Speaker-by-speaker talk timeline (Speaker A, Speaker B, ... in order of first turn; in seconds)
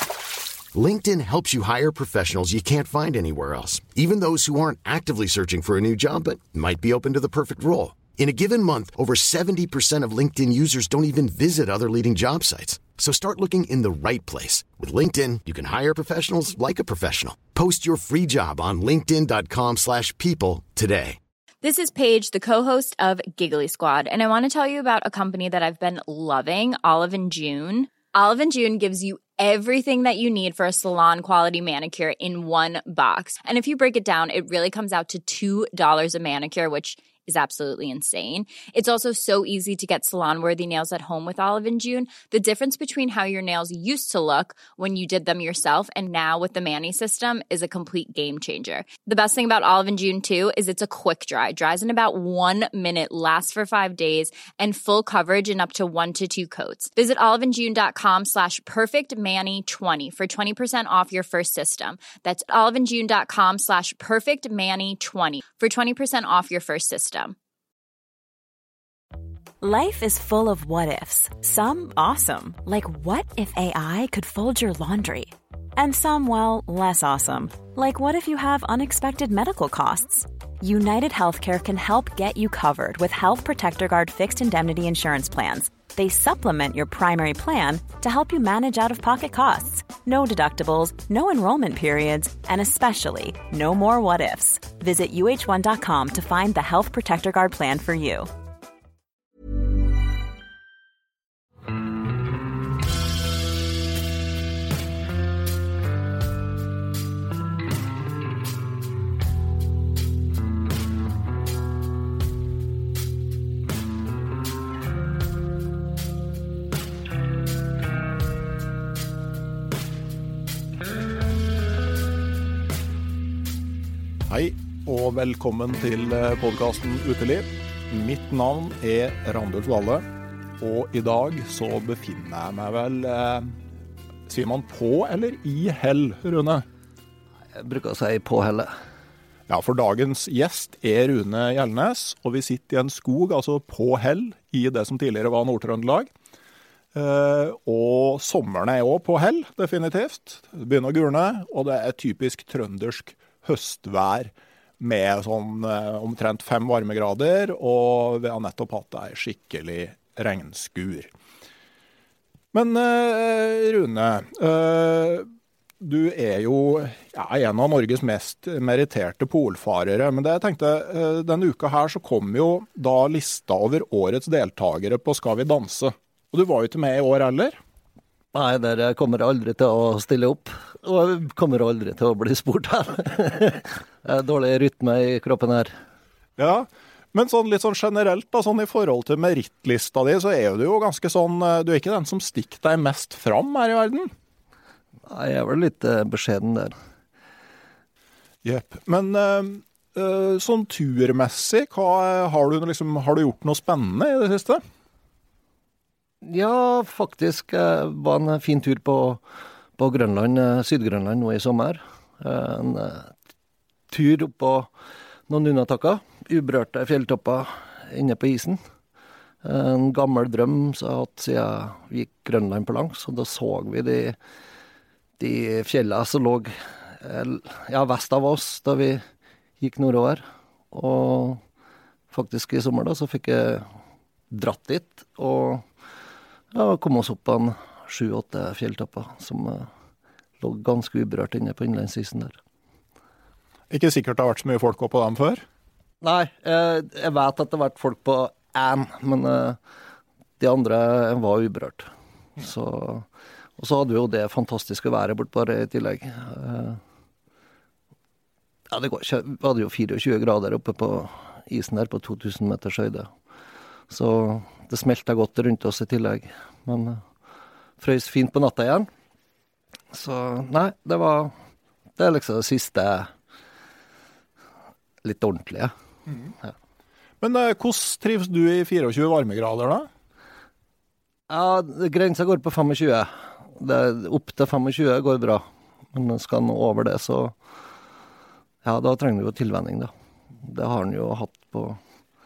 Speaker A: 0.8-21.2
Speaker B: 21.6-67.3
Speaker C: 69.6-98.3
Speaker D: 124.3-130.0, 130.6-133.6, 134.3-136.6, 139.5-146.1, 146.9-161.1, 162.5-165.3, 165.8-177.6, 186.4-194.1, 198.4-204.6, 243.7-245.4, 277.2-279.9
Speaker E: 137.5-138.7, 178.3-185.7, 195.1-196.8, 206.2-209.2, 209.8-213.1, 213.9-214.7, 215.3-218.6, 219.4-224.2, 225.2-229.0, 229.6-231.4, 232.1-233.7, 234.3-235.6, 236.5-239.7, 240.4-242.4, 246.0-249.6, 250.4-253.1, 253.6-256.8, 258.7-263.1, 263.9-267.0, 267.8-268.9, 269.9-271.3, 272.0-273.1, 275.0-275.7, 281.3-287.3, 288.6-289.9, 290.4-291.8